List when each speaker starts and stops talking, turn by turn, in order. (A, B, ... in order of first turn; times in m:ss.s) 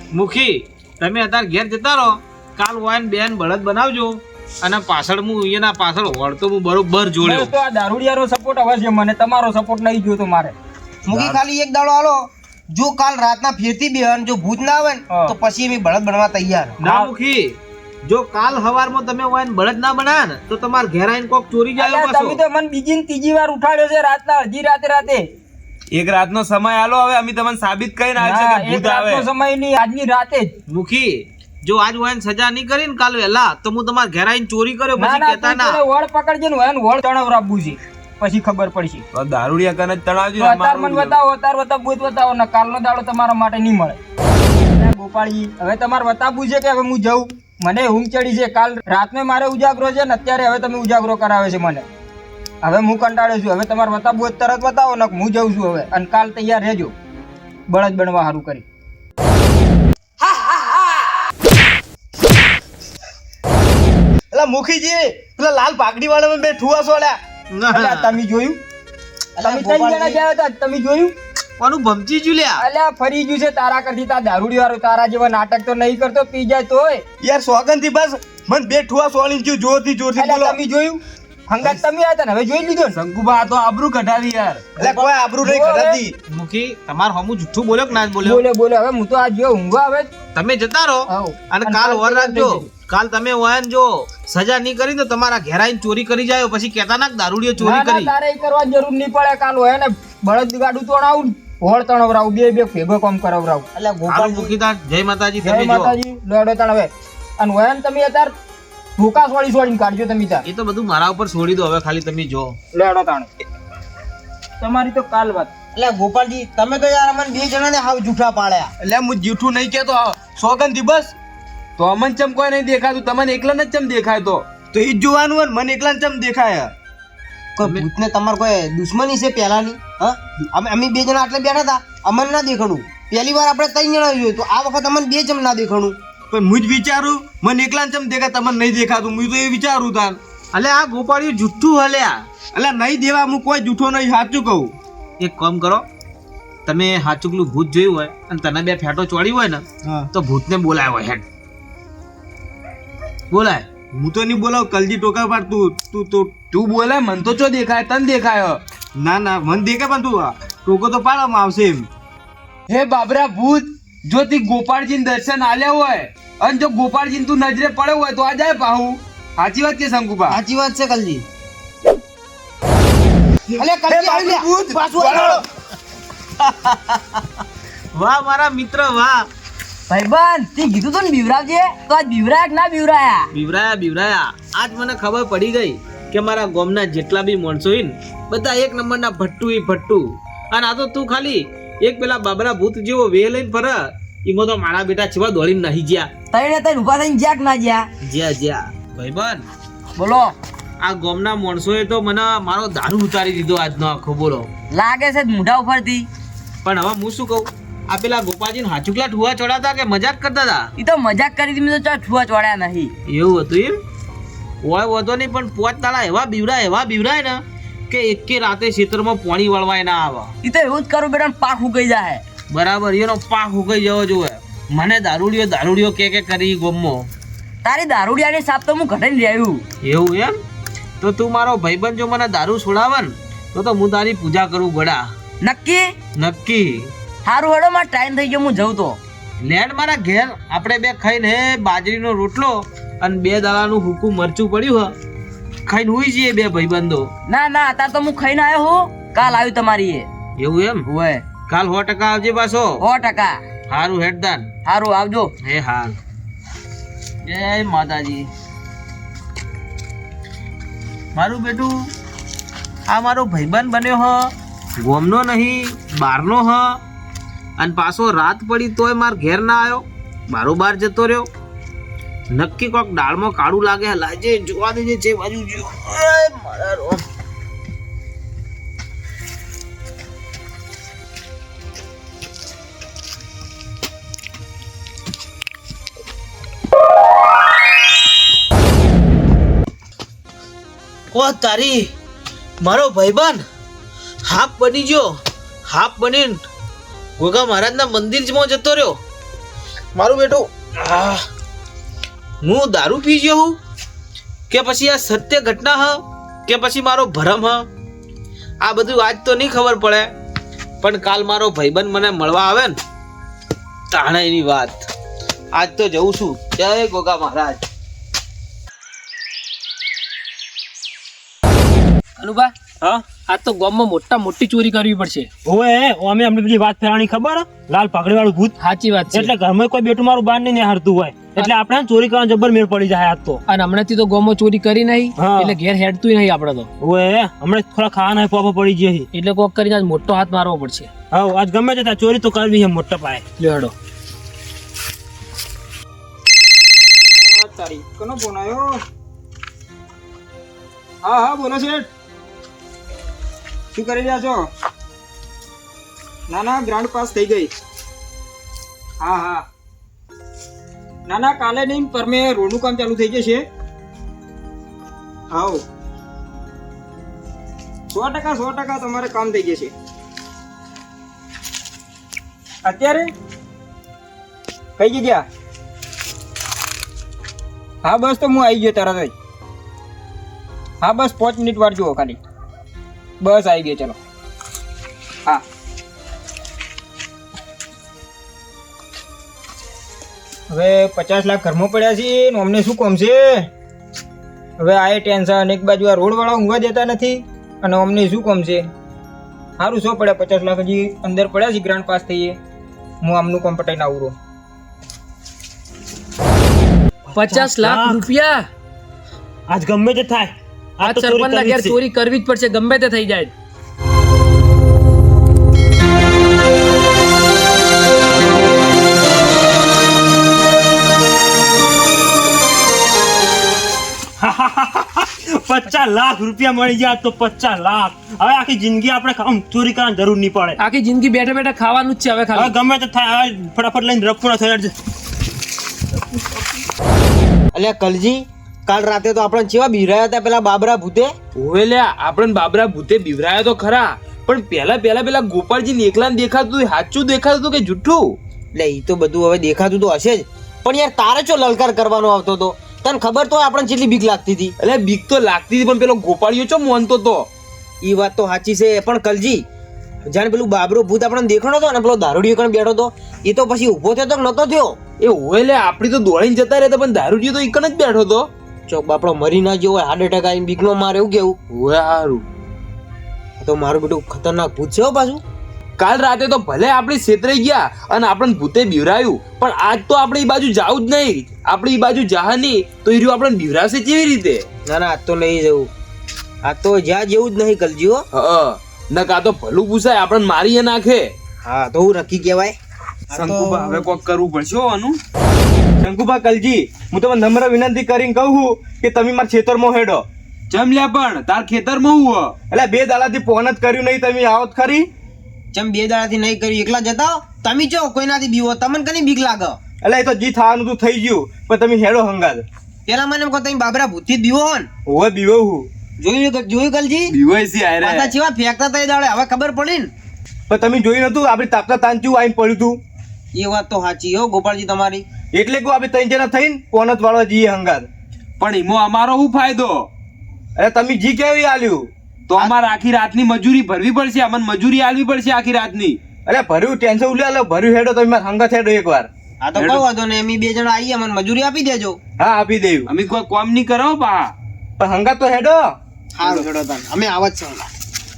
0:00.1-0:07.5 A
0:07.2-0:10.6 B
0:11.1-0:16.8 C
0:11.1-0:11.4 A
0:15.1-0:15.4 B
0:16.8-0:22.4 A
0:16.8-0:17.1 B
0:21.8-0:25.2 B
0:25.9-0:29.3 D
0:28.2-0:30.6 B
0:30.7-0:35.8 A
0:35.0-0:39.0 B
0:39.1-0:41.2 D
0:40.4-0:44.0 B
0:44.7-0:51.9 B
0:52.6-0:57.0 B
0:57.7-0:58.6 B
1:00.2-1:01.1 E
1:04.3-1:07.2 F
1:07.5-1:08.2 A
1:07.7-1:08.6 B
1:09.4-1:10.2 C
1:09.4-1:11.2 B
1:11.6-1:12.6 A
1:12.6-1:17.0 B
1:17.2-1:20.6 F
1:20.2-1:23.0 B
1:22.9-1:24.7 D
1:24.8-1:26.2 F
1:24.8-1:26.0 B
1:26.3-1:28.4 A
1:28.2-1:30.1 B
1:30.4-1:38.1 A
1:31.1-1:32.7 B
1:37.6-1:43.7 B
1:43.8-1:44.5 C
1:44.1-1:45.9 A
1:45.4-1:48.3 B
1:49.0-1:50.4 B
1:50.4-1:52.6 A
1:52.7-1:53.3 B
1:54.6-1:55.5 B
1:55.8-1:58.7 C
1:58.8-2:01.1 F
1:59.7-2:00.1 D
2:01.8-2:04.4 D
2:04.7-2:06.7 F
2:07.6-2:16.0 C
2:07.6-2:07.9 A
2:16.3-2:20.2 F
2:20.5-2:22.2 A
2:22.5-2:24.7 F
2:25.2-2:25.8 A
2:26.7-2:31.2 A
2:29.8-2:30.1 F
2:33.3-2:33.7 A
2:33.9-2:36.4 F
2:36.5-2:38.6 D
2:39.0-2:41.9 F
2:42.7-2:50.4 D
2:50.3-2:51.2 C
2:53.5-2:55.4 D
2:53.6-2:55.4 C
2:56.4-2:57.2 A
2:58.0-2:59.3 A
2:59.9-3:03.3 E
3:03.3-3:16.1 A
3:16.3-3:17.9 E
3:18.0-3:19.5 A
3:20.0-3:20.4 E
3:20.8-3:24.5 A
3:24.7-3:26.1 E
3:26.6-3:30.7 A
3:30.8-3:32.9 E
3:33.1-3:33.8 A
3:34.6-3:40.3 A
3:40.4-3:42.2 E
3:42.5-3:47.1 A
3:47.6-3:49.6 E
3:49.8-3:50.4 A
3:51.0-3:55.1 A
3:55.4-3:55.9 E
3:56.2-3:56.9 A
3:57.2-3:59.0 E
3:59.4-4:04.9 A
4:05.7-4:07.1 A
4:07.3-4:10.1 E
4:10.4-4:10.9 A
4:10.8-4:11.3 E
4:11.4-4:12.8 A
4:12.8-4:13.4 E
4:13.7-4:14.5 A
4:14.7-4:15.3 E
4:15.4-4:16.0 A
4:17.2-4:18.3 A
4:21.2-4:21.7 A
4:22.9-4:26.8 A
4:27.6-4:31.3 A
4:32.3-4:37.0 A
4:51.1-4:51.9 A
4:52.6-4:53.4 A
4:54.2-4:55.2 A
4:55.7-4:56.5 A
4:57.2-4:59.0 A
5:00.0-5:01.2 A
5:02.4-5:03.6 A
5:04.5-5:07.6 A
5:08.6-5:10.1 A
5:10.8-5:12.8 A
5:13.9-5:14.9 A
5:15.5-5:17.6 A
5:22.2-5:22.5 G
5:23.1-5:25.3 G
5:25.5-5:28.5 H
5:28.6-5:29.3 G
5:29.1-5:33.4 H
5:33.5-5:36.7 G
5:35.2-5:35.6 H
5:36.8-5:39.1 H
5:39.1-5:40.9 G
5:41.1-5:43.2 H
5:43.4-5:43.7 G
5:47.2-5:48.8 B
5:51.0-5:51.9 B
5:53.8-5:54.5 B
5:56.3-5:57.5 B
5:59.0-5:59.5 B
6:01.1-6:03.4 B
6:05.3-6:05.6 B
6:07.9-6:09.7 B
6:12.6-6:13.1 B
6:14.8-6:15.2 B
6:17.8-6:19.1 B
6:20.8-6:22.2 B
6:23.2-6:24.0 B
6:30.5-6:33.5 B
6:34.6-6:38.7 B
6:39.6-6:42.4 B
6:43.0-6:44.2 B
6:47.0-6:48.1 H
6:47.2-6:48.5 G
6:49.5-6:51.8 H
6:50.8-6:53.3 G
7:04.2-7:10.6 H
7:10.6-7:12.5 G
7:12.3-7:14.7 H
7:17.5-7:21.1 C
7:21.4-7:28.2 D
7:28.6-7:34.5 C
7:34.6-7:37.3 D
7:37.8-7:39.4 C
7:40.1-7:44.8 C
7:45.0-7:48.3 D
7:48.7-7:51.4 C
7:51.5-7:52.2 D
7:53.4-7:55.2 C
7:55.8-8:04.4 D
8:04.7-8:05.7 C
8:06.4-8:08.0 C
8:08.1-8:11.1 D
8:11.4-8:12.6 C
8:13.1-8:13.9 C
8:13.1-8:15.0 D
8:15.8-8:20.0 F
8:20.5-8:22.4 D
8:22.5-8:24.9 F
8:25.5-8:29.6 C
8:29.8-8:32.4 F
8:32.9-8:34.7 C
8:34.9-8:35.7 F
8:36.0-8:37.1 C
8:37.1-8:38.1 D
8:37.8-8:39.9 C
8:40.5-8:42.8 F
8:43.3-8:45.0 C
8:45.3-8:47.9 F
8:48.4-8:49.9 D
8:50.6-8:51.9 F
8:52.3-8:56.0 D
8:56.2-8:59.1 F
8:59.4-9:02.0 C
8:59.6-8:59.8 D
9:02.2-9:02.9 F
9:02.9-9:04.3 D
9:04.8-9:06.5 F
9:06.2-9:07.7 C